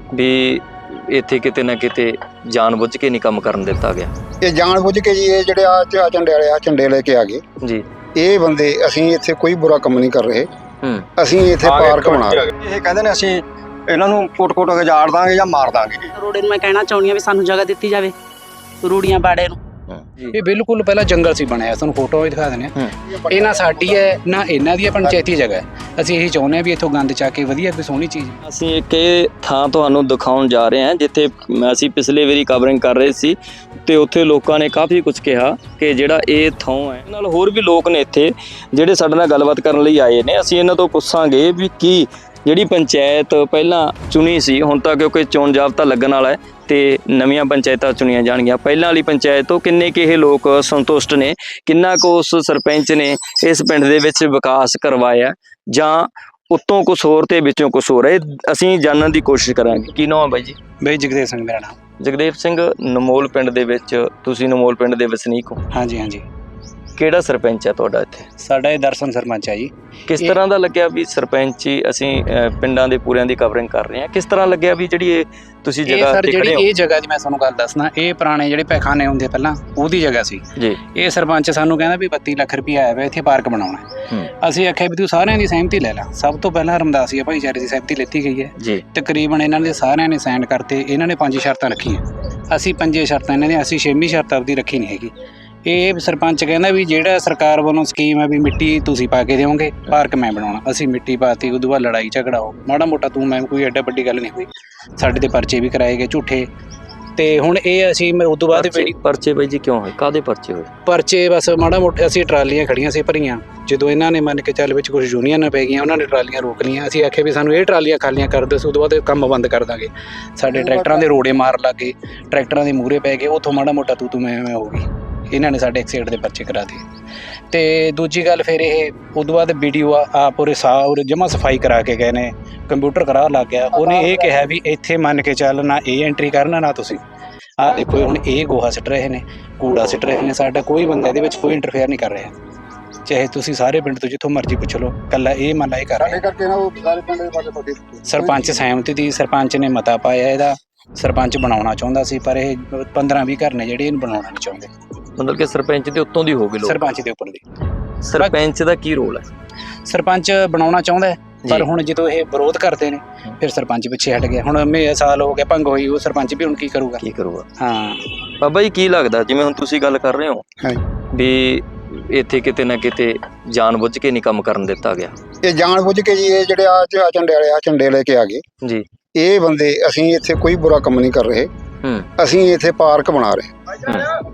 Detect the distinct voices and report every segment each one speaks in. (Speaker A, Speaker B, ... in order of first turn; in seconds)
Speaker A: 0.1-4.1, 19.9-20.4, 28.4-60.6, 62.0-65.6, 67.0-68.2, 70.1-76.7, 108.5-110.7, 155.2-156.8, 158.0-159.2, 167.0-167.5, 168.4-170.4, 171.1-175.1
Speaker B: 4.4-7.4, 8.2-10.5, 11.2-12.4, 23.1-24.1, 120.5-121.1, 146.0-148.7, 175.4-178.4, 179.2-181.5, 182.2-183.5
Speaker C: 11.6-16.1
Speaker D: 16.2-18.1, 18.8-19.6
Speaker E: 20.3-22.8, 23.3-28.4, 60.8-61.8, 65.7-66.2, 68.3-70.4, 75.9-95.1, 95.7-106.5, 107.2-108.9, 110.9-126.8, 127.5-137.0, 137.6-142.3, 143.1-146.2, 148.1-154.7, 156.6-157.4, 158.2-158.4, 159.9-167.0, 167.6-168.0